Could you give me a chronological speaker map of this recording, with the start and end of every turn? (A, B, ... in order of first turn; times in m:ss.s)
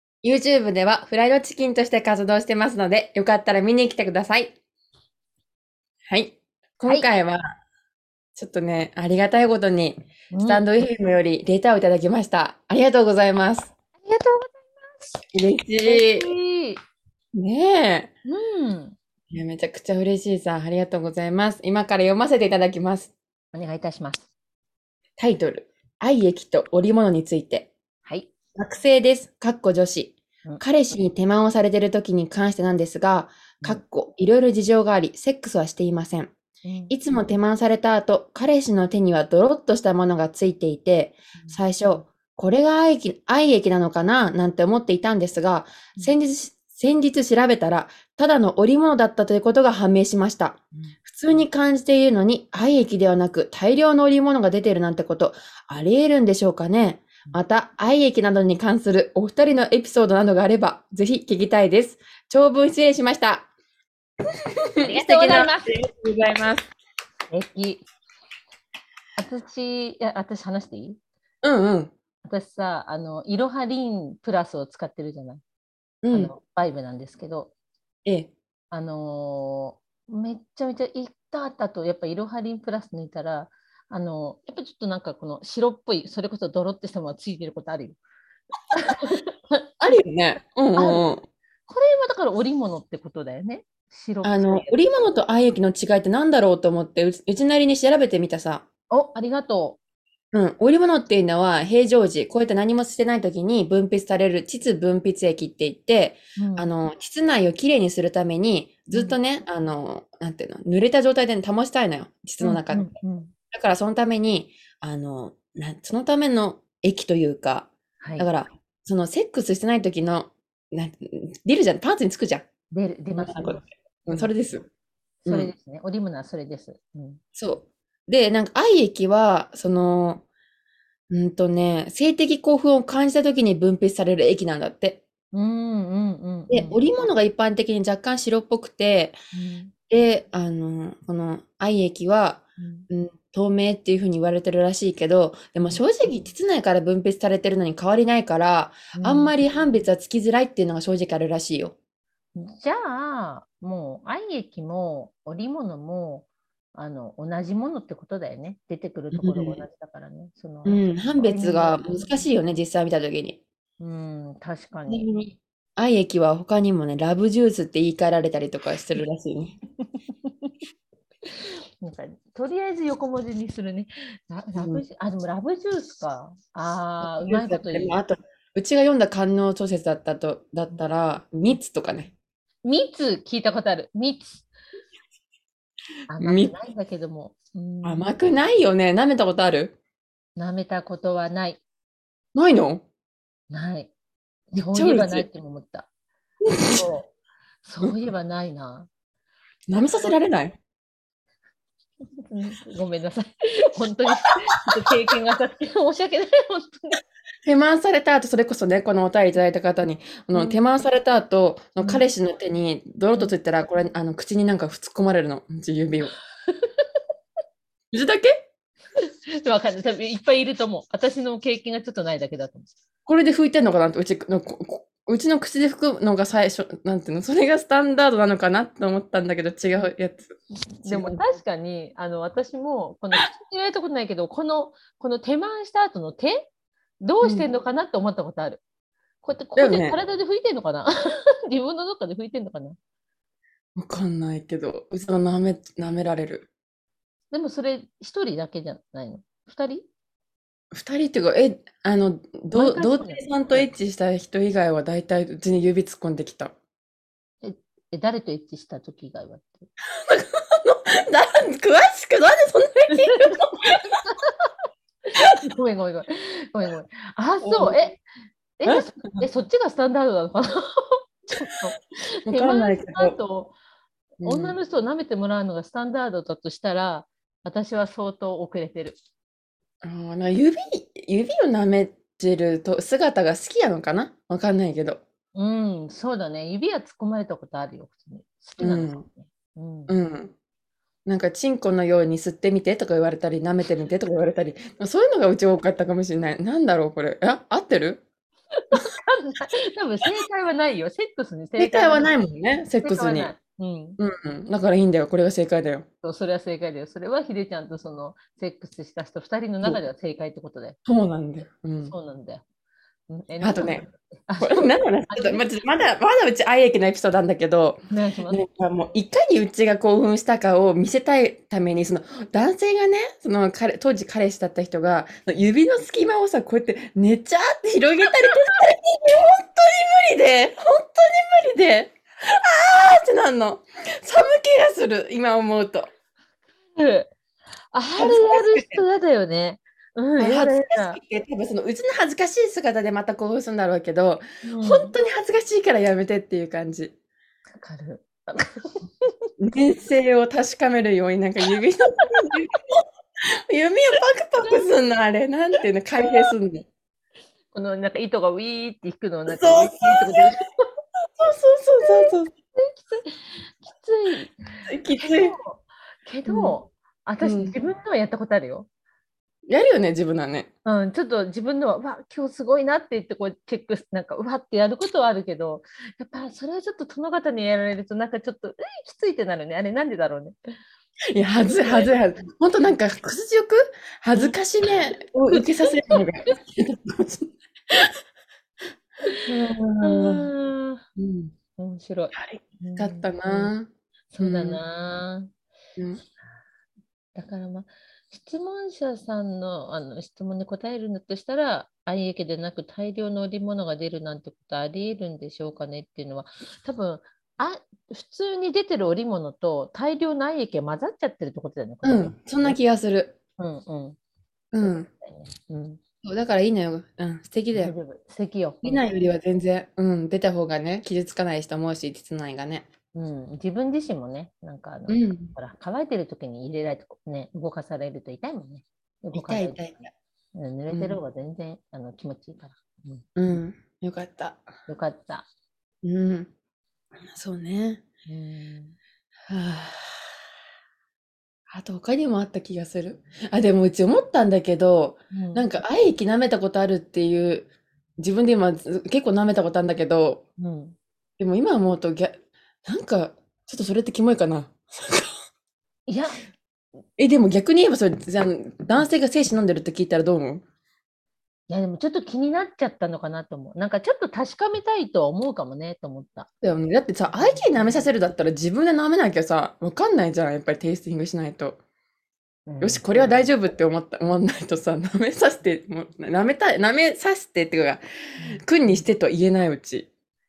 0:00.2-0:04.6 A
0:06.1-0:07.6 A
0:08.3-0:13.7 A
0:10.3-0:10.7 B
0:14.0-0:15.1 B
0:15.3-0:16.3 A
0:15.8-0:16.8 B
0:17.3-0:18.1 A
0:18.2-0:19.0 B
0:19.3-0:23.1 A
0:23.5-0:24.3 B
0:25.2-0:27.7 A
0:28.0-0:28.3 B
0:28.6-0:36.3 A
0:36.6-0:36.9 B
0:36.9-1:03.5 A
1:04.8-1:06.7 A
1:04.8-1:05.7 B
1:07.3-1:07.9 B
1:09.2-1:11.0 B
1:11.4-1:11.9 A
1:12.2-1:15.4 B
1:16.0-1:16.3 A
1:16.1-1:17.5 B
1:18.0-1:18.3 A
1:18.7-1:28.0 B
1:28.7-1:29.6 B
1:29.8-1:31.2 A
1:30.8-1:31.1 B
1:31.7-1:34.8 B
1:34.2-1:38.6 A
1:38.9-1:39.8 B
1:40.3-1:52.9 A
1:46.4-1:46.7 B
1:52.4-1:53.3 B
1:53.5-2:02.5 A
1:58.0-1:58.3 B
2:02.7-2:04.6 B
2:03.2-2:04.6 A
2:05.2-2:07.2 B
2:05.2-2:05.5 A
2:07.4-2:10.2 A
2:11.1-2:15.0 A
2:15.3-2:16.8 B
2:16.5-2:19.2 A
2:19.3-2:19.7 B
2:19.9-2:31.7 A
2:22.6-2:22.8 B
2:28.9-2:29.3 B
2:32.3-2:42.2 B
2:39.1-2:39.6 A
2:40.6-2:43.4 A
2:43.8-2:45.0 B
2:44.9-2:49.6 A
2:49.8-2:50.5 B
2:51.3-2:57.9 B
2:54.6-2:54.8 A
2:57.0-3:02.1 A
3:02.6-3:04.5 B
3:06.1-3:08.1 B
3:06.2-3:06.5 A
3:07.8-3:09.8 A
3:10.4-3:11.6 B
3:12.3-3:12.8 A
3:13.5-3:13.9 B
3:14.5-3:15.9 B
3:14.6-3:15.2 A
3:16.4-3:16.8 A
3:16.6-3:17.1 B
3:17.6-3:18.9 B
3:19.7-3:20.6 A
3:19.8-3:20.1 B
3:22.2-3:27.0 B
3:27.4-3:36.1 A
3:30.3-3:30.6 B
3:36.5-3:36.9 B
3:37.9-3:38.4 A
3:39.4-3:42.7 B
3:43.0-3:51.2 A
3:50.8-3:56.5 B
3:57.0-3:58.6 B
3:57.2-3:57.5 A
3:59.2-4:00.9 B
3:59.6-4:00.0 A
4:01.5-4:02.8 B
4:03.8-4:06.5 A
4:07.3-4:09.9 B
4:10.7-4:16.5 A
4:12.5-4:13.7 B
4:17.4-4:19.7 B
4:20.1-4:23.9 A
4:24.0-4:24.5 B
4:25.1-4:28.0 B
4:27.4-4:27.8 A
4:28.6-4:33.5 B
4:28.6-4:29.3 A
4:32.3-4:33.2 A
4:34.2-4:34.6 A
4:34.2-4:39.0 B
4:39.8-4:45.0 A
4:45.3-4:49.9 B
4:48.6-4:49.0 A
4:49.9-4:50.3 A
4:51.0-4:58.0 A
4:58.6-5:02.1 B
5:01.6-5:03.3 A
5:02.8-5:04.0 B
5:04.0-5:05.8 A
5:06.0-5:10.8 B
5:10.8-5:11.9 A
5:11.8-5:12.4 B
5:13.1-5:15.4 B
5:13.4-5:13.8 A
5:14.4-5:35.9 A
5:17.9-5:18.4 B
5:36.7-5:37.1 B
5:37.7-5:41.0 B
5:38.0-5:38.8 A
5:40.2-5:46.9 A
5:44.4-5:45.0 B
5:47.6-5:49.1 B
5:49.4-5:52.7 A
5:53.5-5:56.7 A
5:54.4-5:54.7 B
5:57.5-6:00.4 B
5:59.3-6:00.3 A
6:01.2-6:02.3 A
6:01.8-6:08.7 B
6:04.7-6:05.4 A
6:06.3-6:06.6 A
6:07.2-6:07.5 A
6:09.5-6:10.5 A
6:10.6-6:20.3 B
6:21.1-6:27.9 A
6:21.5-6:21.9 B
6:24.1-6:26.0 B
6:29.2-6:30.3 A
6:29.8-6:30.8 B
6:31.0-6:31.3 A
6:31.6-6:33.5 B
6:32.1-6:34.6 A
6:34.1-6:35.3 B
6:35.8-6:36.0 A
6:37.1-6:52.6 B
6:51.8-6:53.2 A
6:53.4-6:54.0 B
6:54.5-6:54.9 A
6:54.6-6:55.8 B
6:56.0-6:57.7 A
6:57.5-6:58.8 B
6:58.6-7:02.7 A
7:02.9-7:13.0 B
7:04.9-7:05.3 A
7:09.1-7:09.8 A
7:10.7-7:11.0 A
7:13.2-7:14.4 A
7:14.7-7:15.3 B
7:15.8-7:16.3 A
7:17.1-7:17.8 A
7:18.0-7:18.7 B
7:19.3-7:20.1 A
7:21.5-7:30.2 A
7:25.1-7:25.4 B
7:30.4-7:30.8 B
7:31.2-7:32.1 A
7:32.6-7:35.1 A
7:35.9-7:36.2 B
7:37.0-7:40.4 A
7:41.5-7:46.3 B
7:46.4-7:51.6 A
7:47.1-7:47.9 B
7:52.5-7:53.3 B
7:52.6-7:57.8 A
7:58.2-7:58.9 B
7:58.4-7:59.9 A